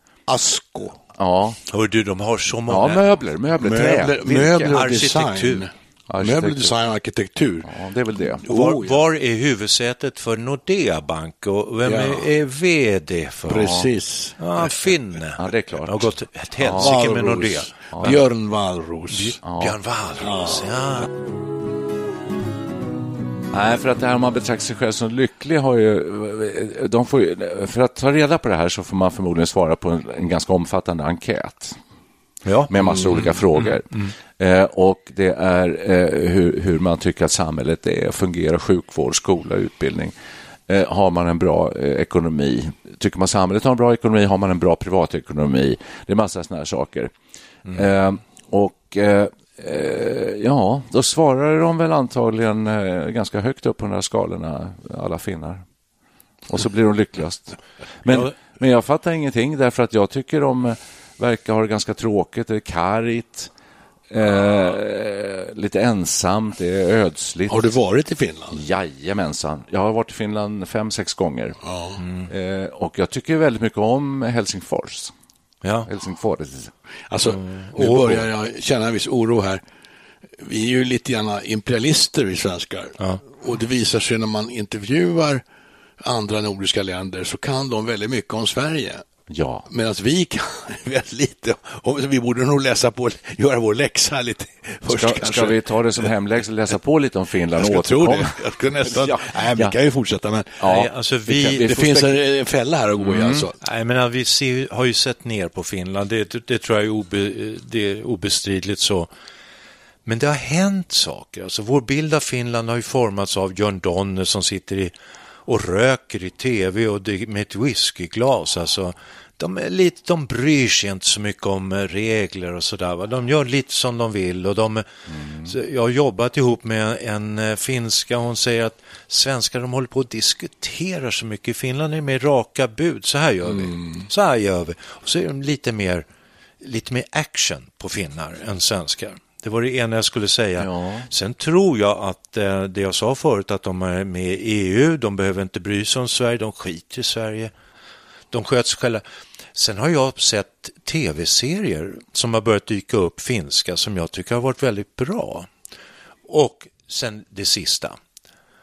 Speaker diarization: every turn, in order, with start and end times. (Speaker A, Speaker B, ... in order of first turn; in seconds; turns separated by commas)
Speaker A: 0.3-1.0, Speaker B: 1.2-1.6, Speaker C: 1.7-3.0, Speaker B: 2.7-4.8, Speaker A: 3.6-7.7, Speaker C: 4.2-5.7, Speaker B: 6.1-6.7, Speaker B: 7.6-8.4, Speaker A: 8.4-9.0, Speaker C: 8.5-13.8, Speaker A: 11.8-12.3, Speaker A: 13.5-14.8, Speaker B: 13.6-13.8, Speaker C: 14.4-18.2, Speaker B: 15.4-16.1, Speaker B: 16.6-16.9, Speaker A: 16.7-19.4, Speaker C: 19.1-21.1, Speaker B: 19.4-19.8, Speaker A: 20.2-20.7, Speaker B: 23.5-31.8, Speaker C: 32.4-32.7, Speaker B: 32.7-40.1, Speaker A: 32.8-33.3, Speaker C: 33.6-34.1, Speaker B: 40.7-47.1, Speaker B: 47.7-55.6, Speaker B: 56.5-63.5, Speaker B: 64.1-67.7, Speaker A: 67.5-68.6, Speaker B: 68.5-71.6, Speaker A: 71.6-72.0, Speaker C: 72.0-72.3, Speaker B: 72.3-75.1, Speaker C: 75.6-75.9, Speaker B: 75.9-76.7, Speaker A: 77.1-79.6, Speaker C: 77.3-78.3, Speaker A: 80.4-85.4, Speaker A: 86.0-89.0, Speaker B: 89.3-89.7, Speaker A: 89.7-95.6, Speaker B: 94.9-99.7, Speaker A: 97.5-100.6, Speaker B: 100.6-102.2, Speaker C: 100.6-101.7, Speaker A: 101.5-103.5, Speaker B: 103.0-103.4, Speaker C: 103.6-109.1, Speaker C: 110.0-114.9, Speaker C: 115.5-124.9, Speaker B: 125.1-125.5, Speaker C: 125.4-136.1, Speaker A: 133.4-134.1, Speaker C: 136.6-147.5, Speaker B: 140.6-141.1, Speaker C: 148.3-149.0, Speaker C: 149.5-155.5, Speaker C: 156.3-158.0